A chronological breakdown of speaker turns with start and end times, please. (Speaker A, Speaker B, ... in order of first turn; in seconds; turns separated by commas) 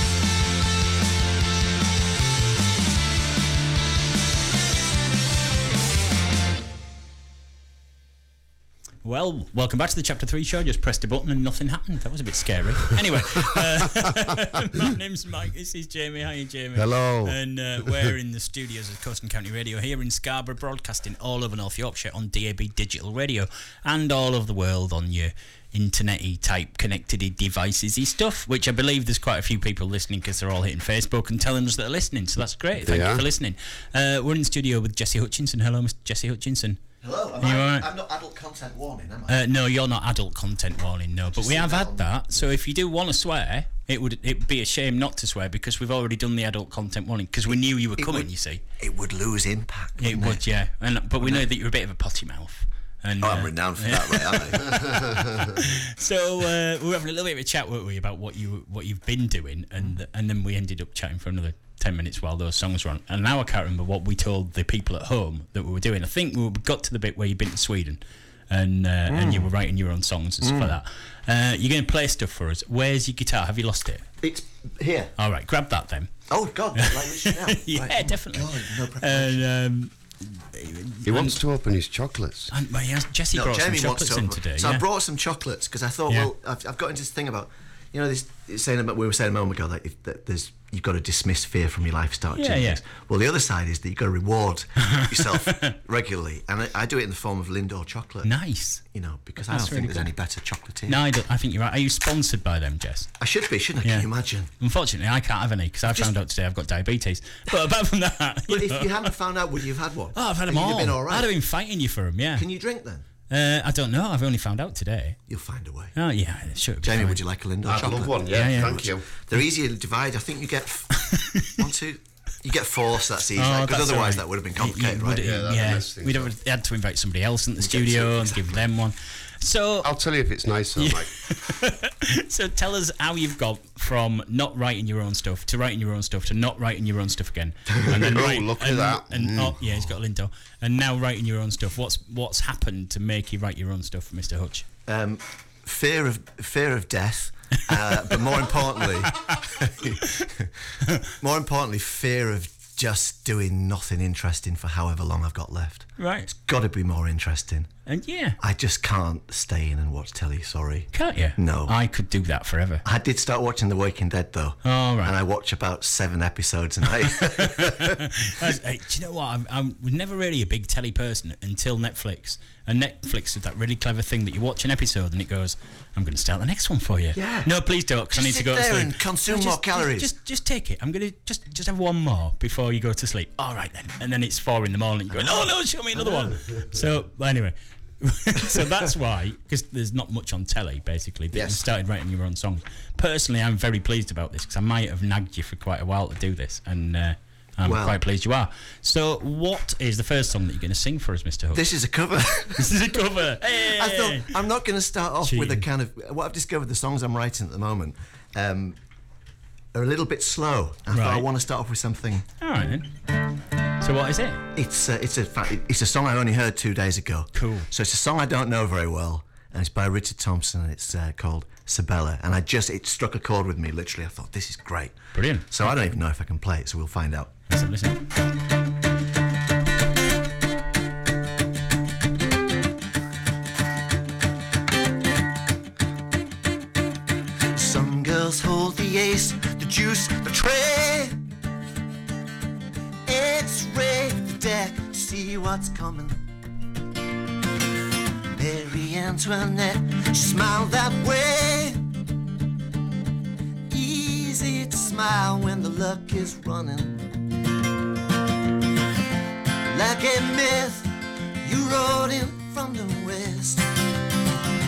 Speaker A: 9.0-36.8, Speaker B: 16.8-17.4, Speaker B: 32.8-33.2, Speaker C: 37.0-39.4, Speaker A: 37.4-37.9, Speaker A: 39.3-48.6, Speaker C: 41.3-42.4, Speaker C: 48.0-50.4, Speaker A: 50.0-74.1, Speaker C: 51.2-51.5, Speaker C: 53.2-54.8, Speaker C: 69.1-69.5, Speaker C: 70.4-70.8, Speaker C: 74.2-75.1, Speaker A: 75.2-76.1, Speaker C: 76.3-79.4, Speaker A: 76.8-81.4, Speaker B: 81.0-82.5, Speaker A: 82.5-84.8, Speaker C: 83.3-101.0, Speaker A: 92.3-92.8, Speaker A: 94.8-95.7, Speaker A: 98.2-98.8, Speaker A: 99.4-100.1, Speaker A: 100.9-103.1, Speaker C: 103.2-104.5, Speaker A: 104.6-109.1, Speaker C: 108.5-111.3, Speaker A: 110.1-112.4, Speaker C: 112.3-113.0, Speaker A: 113.3-115.2, Speaker C: 115.3-115.9, Speaker A: 115.9-117.2, Speaker C: 116.8-120.9, Speaker B: 117.7-119.0, Speaker A: 117.8-118.8, Speaker A: 121.0-121.5, Speaker C: 121.6-125.2, Speaker A: 123.4-129.9, Speaker B: 125.2-126.3, Speaker C: 127.6-128.6, Speaker B: 129.8-131.1, Speaker A: 130.8-144.7, Speaker B: 137.8-139.6, Speaker C: 144.9-150.5, Speaker C: 151.2-157.7, Speaker A: 156.0-156.3, Speaker A: 157.9-158.3, Speaker C: 158.4-161.8, Speaker A: 160.9-162.8, Speaker C: 162.8-168.0, Speaker A: 164.6-165.1, Speaker A: 167.2-201.7, Speaker C: 177.1-180.1, Speaker C: 186.0-186.3, Speaker C: 191.3-191.6, Speaker C: 197.6-198.0, Speaker C: 201.5-208.8, Speaker A: 202.6-204.3, Speaker A: 205.2-205.7, Speaker C: 209.7-212.2, Speaker A: 210.9-211.3, Speaker A: 212.4-212.8, Speaker A: 213.8-214.4, Speaker C: 214.5-227.3, Speaker A: 217.3-217.7, Speaker A: 225.1-225.7, Speaker A: 227.5-228.0, Speaker C: 237.5-241.2, Speaker C: 243.1-246.2, Speaker C: 248.3-251.8, Speaker C: 253.7-257.1, Speaker C: 259.7-260.9, Speaker C: 261.4-263.6